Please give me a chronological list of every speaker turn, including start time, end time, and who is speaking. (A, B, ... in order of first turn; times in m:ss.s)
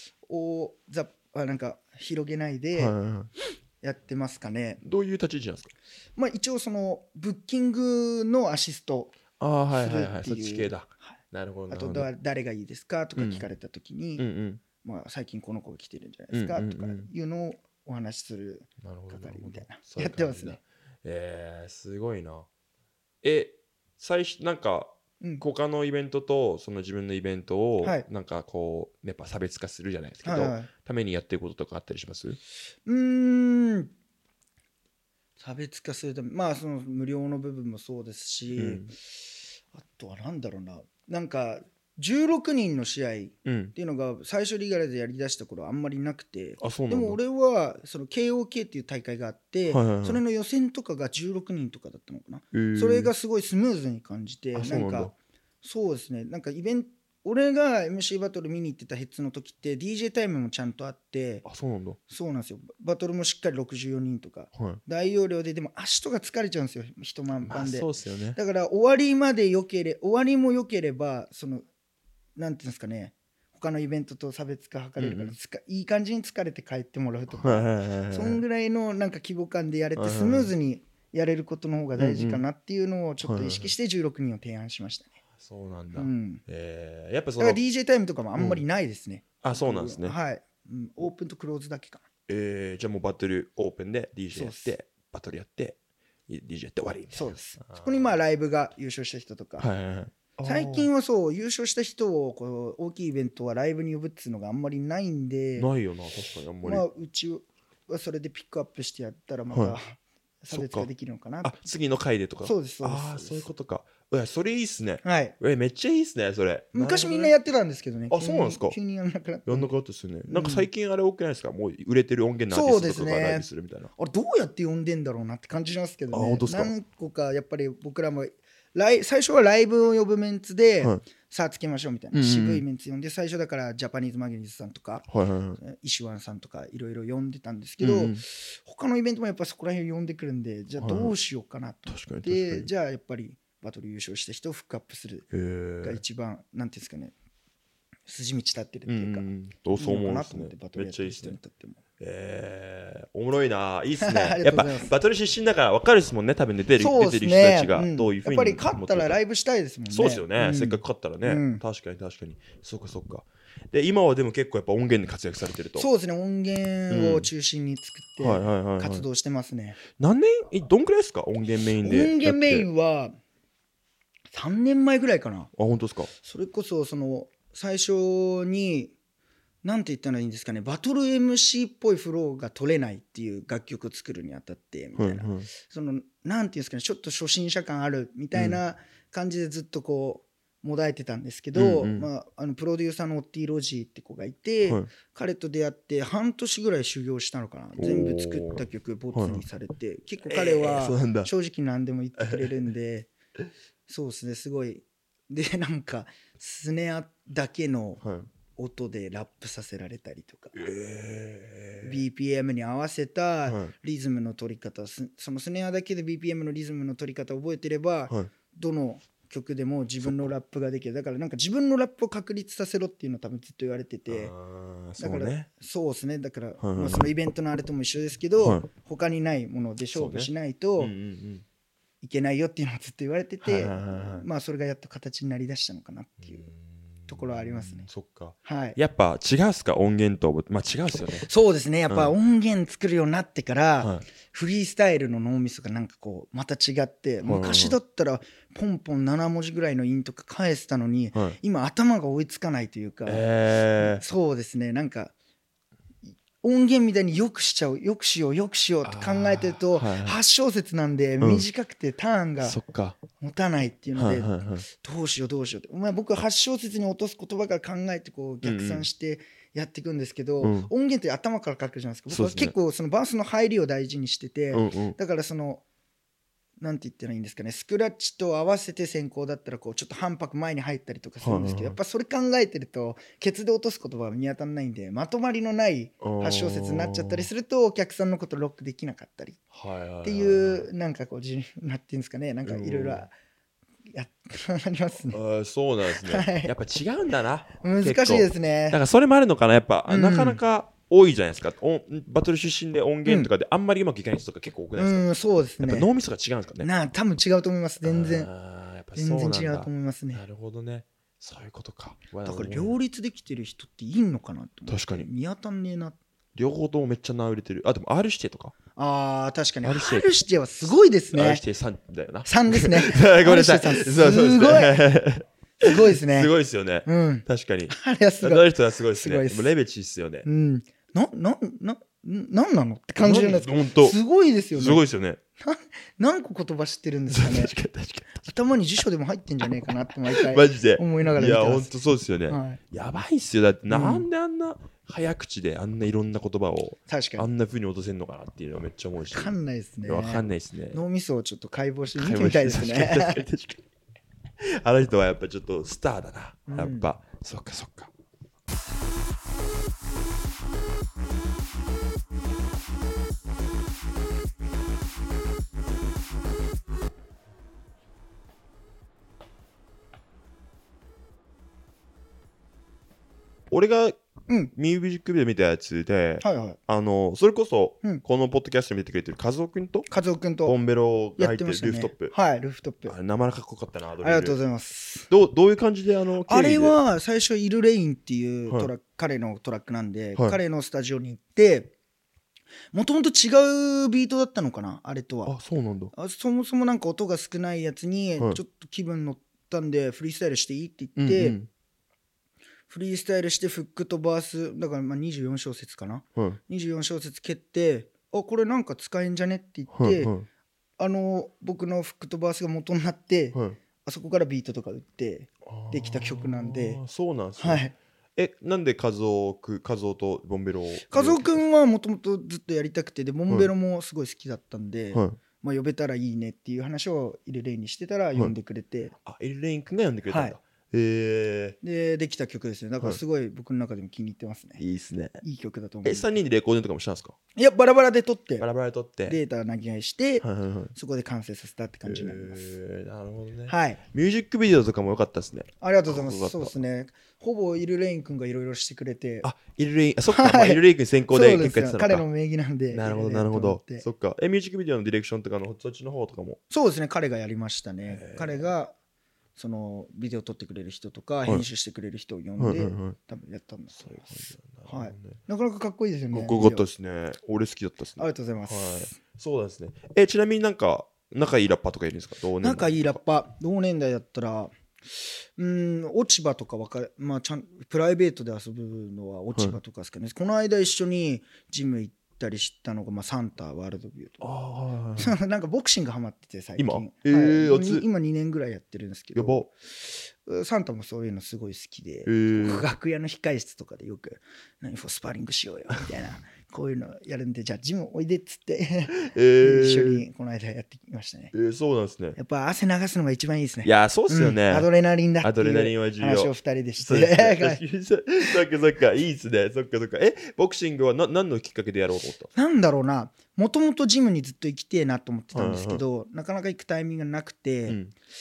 0:00.3-0:03.0 A
0:02.7-0:03.3 B
0:03.8-0:04.8 A
0:04.8-0:05.7 B
0:06.2-0:09.2 A
0:09.4-0:12.1 B
0:09.7-0:11.2 A
0:11.7-0:14.2 A
0:13.2-0:13.4 B
0:14.2-0:14.6 B
0:14.8-0:20.6 A
0:16.3-0:17.1 B
0:18.8-0:22.5 B
0:23.2-0:32.4 B
0:30.2-0:30.7 A
0:32.8-0:33.9 A
0:35.4-1:01.4 A
0:38.6-0:38.9 B
0:43.4-0:43.7 B
0:46.6-0:47.2 B
0:49.7-0:50.2 B
0:52.5-0:53.1 B
0:54.5-0:55.1 B
1:01.4-1:02.0 B
1:02.1-1:11.6 A
1:04.5-1:04.8 B
1:07.4-1:08.4 B
1:12.4-1:25.2 A
1:15.0-1:15.3 B
1:17.3-1:18.4 B
1:20.0-1:20.5 B
1:22.0-1:22.4 B
1:23.2-1:23.7 B
1:25.4-1:27.6 B
1:25.9-1:26.4 A
1:27.4-1:32.0 A
1:28.4-1:28.6 B
1:29.4-1:30.2 B
1:32.3-1:38.1 B
1:34.3-1:34.7 A
1:37.1-1:39.7 A
1:39.6-1:40.9 B
1:40.4-1:45.7 A
1:45.6-1:46.8 B
1:46.6-1:51.7 A
1:49.5-1:49.8 B
1:50.5-1:50.9 B
1:51.4-1:57.3 B
1:52.4-1:53.5 A
1:55.0-1:55.3 A
1:56.7-1:59.7 A
1:58.1-1:58.8 B
1:59.4-2:03.9 B
2:00.3-2:00.7 A
2:02.5-2:15.1 A
2:06.1-2:06.7 B
2:12.1-2:12.6 B
2:15.1-2:15.6 B
2:15.6-2:25.3 A
2:17.8-2:18.2 B
2:20.8-2:21.1 B
2:21.9-2:22.7 B
2:25.3-2:26.0 B
2:25.8-2:27.1 A
2:28.1-2:31.8 A
2:28.9-2:31.4 B
2:32.0-2:39.2 B
2:34.0-2:34.9 A
2:36.8-2:41.6 A
2:39.9-2:45.9 B
2:45.8-2:49.8 A
2:46.9-2:47.3 B
2:48.2-2:49.1 B
2:49.9-2:52.7 B
2:51.8-2:53.2 A
2:54.3-2:55.5 A
2:55.5-2:56.1 B
2:56.2-2:58.9 A
2:59.6-3:23.1 A
3:05.0-3:05.5 B
3:08.3-3:08.6 B
3:11.5-3:12.1 B
3:17.8-3:19.4 B
3:20.2-3:21.3 B
3:22.2-3:22.5 B
3:23.9-3:28.0 A
3:28.0-3:28.3 B
3:28.5-3:30.6 A
3:30.5-3:32.0 B
3:31.8-3:44.3 A
3:33.4-3:33.7 B
3:40.0-3:40.3 B
3:44.1-3:45.5 B
3:45.0-3:50.9 A
3:46.6-3:47.1 B
3:48.4-3:48.6 B
3:49.9-3:51.4 B
3:52.0-3:56.5 A
3:53.4-3:54.2 B
3:56.2-4:01.3 B
3:57.1-3:57.9 A
3:58.4-3:58.8 A
4:01.2-4:15.1 A
4:03.8-4:04.0 B
4:07.2-4:07.8 B
4:13.0-4:14.0 B
4:16.4-4:22.6 A
4:18.8-4:20.2 B
4:22.4-4:23.0 B
4:23.2-4:35.6 A
4:23.9-4:24.6 B
4:28.4-4:28.9 B
4:30.4-4:30.7 B
4:32.1-4:32.5 B
4:34.5-4:35.0 B
4:36.6-4:49.4 A
4:41.2-4:41.8 B
4:46.0-4:47.3 B
4:49.5-4:50.7 B
4:50.0-4:53.1 A
4:52.4-4:53.0 B
4:53.9-4:55.2 A
4:55.1-5:05.0 B
4:56.0-4:56.5 A
4:57.6-4:58.8 A
4:59.9-5:00.4 A
5:03.0-5:03.3 A
5:04.8-5:05.9 A
5:05.6-5:06.7 B
5:06.6-5:08.3 A
5:07.8-5:12.7 B
5:08.9-5:10.2 A
5:12.2-5:16.0 A
5:14.7-5:15.1 B
5:16.3-5:18.5 B
5:18.8-5:21.4 A
5:19.6-5:20.1 B
5:21.1-5:30.2 B
5:22.2-5:24.8 A
5:25.6-5:26.3 A
5:26.8-5:29.5 A
5:30.2-5:34.8 A
5:33.0-5:34.0 B
5:34.5-5:35.2 B
5:35.4-5:37.5 A
5:37.1-5:38.3 B
5:38.2-5:42.6 A
5:40.1-5:50.8 B
5:43.7-5:44.1 A
5:46.9-5:47.3 A
5:49.1-5:53.2 A
5:51.9-5:53.6 B
5:54.4-5:57.9 B
5:56.5-5:56.9 A
6:13.5-6:14.0 B
6:14.5-6:19.9 B
6:16.2-6:16.6 A
6:19.9-6:20.6 A
6:20.4-6:22.1 B
6:21.2-6:22.9 A
6:22.8-6:24.4 B
6:24.0-6:25.1 A
6:25.1-6:26.8 B
6:26.2-6:31.7 A
6:32.7-6:35.4 A
6:35.2-6:35.9 B
6:35.9-6:41.4 A
6:41.0-6:41.5 B
6:42.7-6:50.1 A
6:49.7-6:50.3 B
6:50.8-6:56.8 A
6:53.3-6:53.6 B
6:55.4-6:57.6 B
6:57.4-6:57.7 A
6:58.2-7:01.4 B
7:00.9-7:08.9 A
7:04.9-7:05.2 B
7:09.0-7:11.6 B
7:10.1-7:10.4 A
7:11.6-7:14.6 A
7:14.6-7:15.2 B
7:15.2-7:16.1 A
7:15.8-7:17.2 B
7:17.3-7:18.4 A
7:18.4-7:19.2 B
7:19.1-7:22.6 A
7:20.2-7:20.7 B
7:21.8-7:26.6 B
7:23.5-7:23.8 A
7:25.6-7:29.3 A
7:29.2-7:32.0 B
7:30.1-7:33.8 A
7:32.7-7:36.4 B
7:36.5-7:38.7 A
7:37.8-7:38.5 B
7:39.4-7:46.6 A
7:42.4-7:43.0 B
7:43.8-7:45.2 B
7:46.1-7:53.0 B
7:48.0-7:49.0 A
7:52.4-8:04.3 A
8:04.2-8:05.2 B
8:05.0-8:21.3 A
8:06.6-8:07.8 B
8:09.1-8:09.5 B
8:12.0-8:12.6 B
8:18.9-8:20.0 B
8:21.3-8:22.2 B
8:22.1-8:27.6 A
8:23.6-8:24.7 B
8:25.2-8:32.3 B
8:32.3-8:37.8 A
8:35.3-8:35.8 B
8:37.7-8:37.9 B